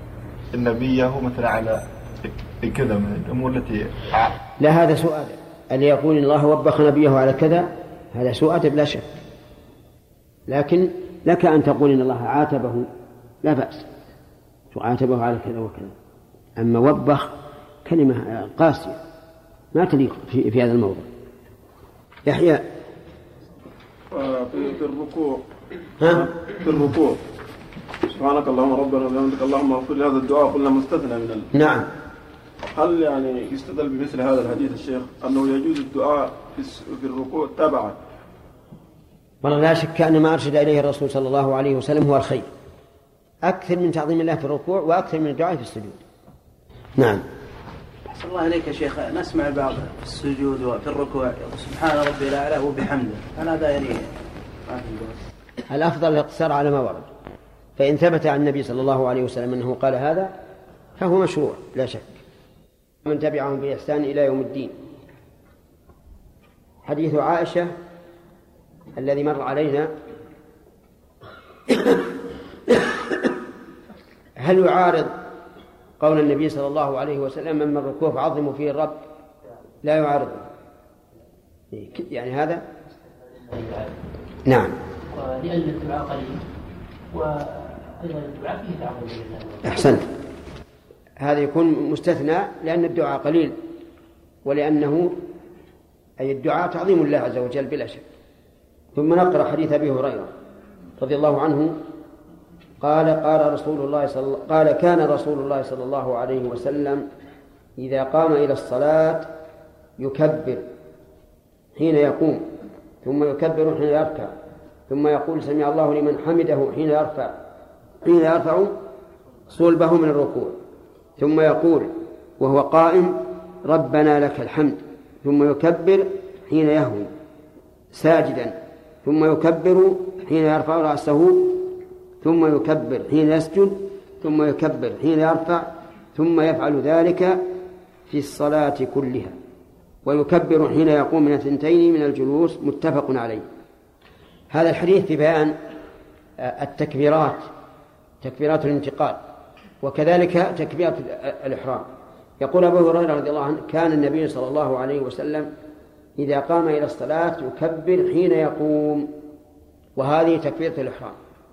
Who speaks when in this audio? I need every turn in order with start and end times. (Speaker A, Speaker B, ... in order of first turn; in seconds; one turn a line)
Speaker A: 0.5-4.1
Speaker B: 4.6-9.1
Speaker B: 10.5-12.9
Speaker B: 13.4-13.9
Speaker B: 14.7-15.9
Speaker B: 16.6-17.3
Speaker B: 17.9-19.0
Speaker B: 19.7-21.1
Speaker B: 22.3-22.6
Speaker C: 24.1-25.4
Speaker B: 26.0-26.3
Speaker C: 26.1-27.2
Speaker C: 28.1-31.5
Speaker B: 31.5-31.9
Speaker C: 32.6-38.0
Speaker B: 39.4-42.5
Speaker B: 43.5-46.0
Speaker B: 47.0-47.2
Speaker D: 48.1-54.1
Speaker D: 54.6-55.2
Speaker B: 55.7-57.1
Speaker B: 57.8-60.4
Speaker B: 61.0-62.2
Speaker B: 63.0-64.8
Speaker B: 66.8-67.7
Speaker B: 69.0-69.9
Speaker B: 71.7-72.0
Speaker B: 74.4-75.2
Speaker B: 76.0-79.0
Speaker B: 79.8-80.5
Speaker B: 81.7-82.6
Speaker B: 84.5-84.8
Speaker E: 85.4-86.4
Speaker E: 88.0-89.6
Speaker B: 89.6-90.1
Speaker B: 91.2-93.6
Speaker B: 94.5-95.2
Speaker B: 96.2-98.0
Speaker B: 99.0-100.3
Speaker B: 101.0-101.8
Speaker B: 102.8-107.1
Speaker B: 107.8-109.3
Speaker B: 110.0-110.7
Speaker B: 111.8-112.5
Speaker B: 113.0-114.3
Speaker B: 114.9-117.4
Speaker B: 118.0-118.8
Speaker B: 119.5-120.6
Speaker B: 121.2-127.1
Speaker B: 127.9-131.7
Speaker B: 132.2-137.4
Speaker B: 138.1-139.3
Speaker B: 140.1-143.5
Speaker B: 144.5-145.6
Speaker B: 146.4-147.5
Speaker B: 148.2-149.2
Speaker B: 149.8-151.9
Speaker B: 152.4-155.5
Speaker B: 156.2-159.1
Speaker B: 160.0-161.2